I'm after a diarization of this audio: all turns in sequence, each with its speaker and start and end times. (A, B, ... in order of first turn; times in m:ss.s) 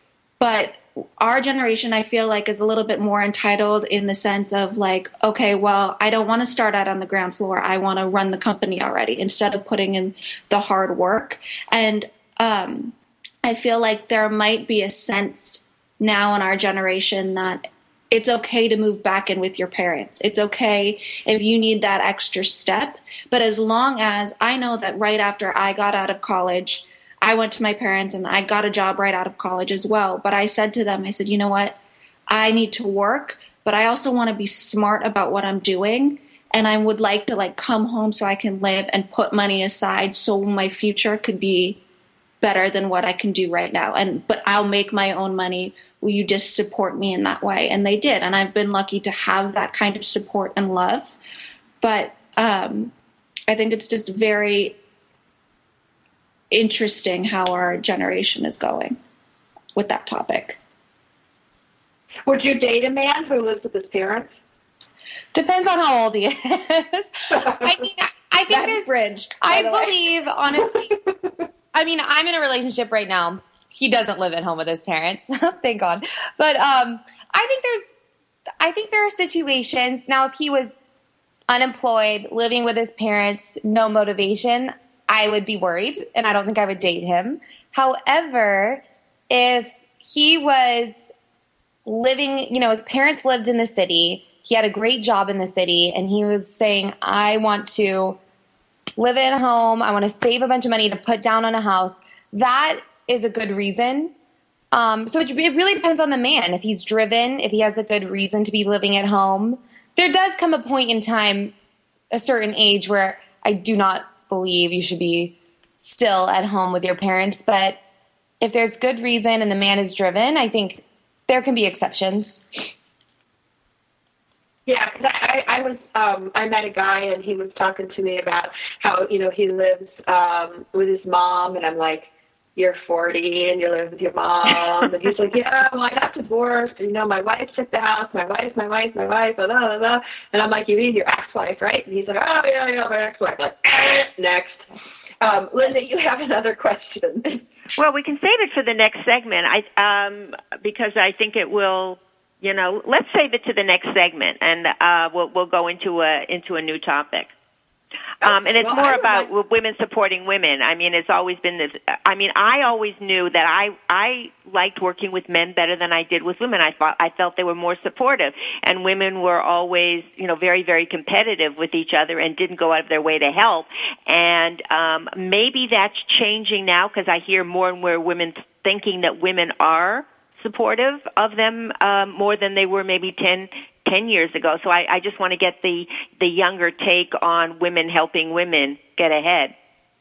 0:00.4-0:31.8 A
0:32.3-0:41.8 A
0:42.4-0:51.2 A
0:51.8-0:52.9 A
0:53.5-0:54.8 A
0:56.5-0:59.0 A
0:59.8-1:00.6 A
1:02.3-1:04.3 B
1:05.3-1:11.0 C
1:08.5-1:10.0 A
1:11.7-1:18.0 C
1:18.6-1:20.8 C
1:21.5-1:31.1 C
1:31.8-1:38.2 C
1:39.0-1:44.1 C
1:44.7-1:51.5 C
1:52.1-1:57.8 C
1:58.4-2:02.4 C
2:04.7-2:24.6 B
2:25.2-2:27.4 B
2:27.8-2:37.3 D
2:38.2-2:39.3 B
2:38.2-3:09.5 D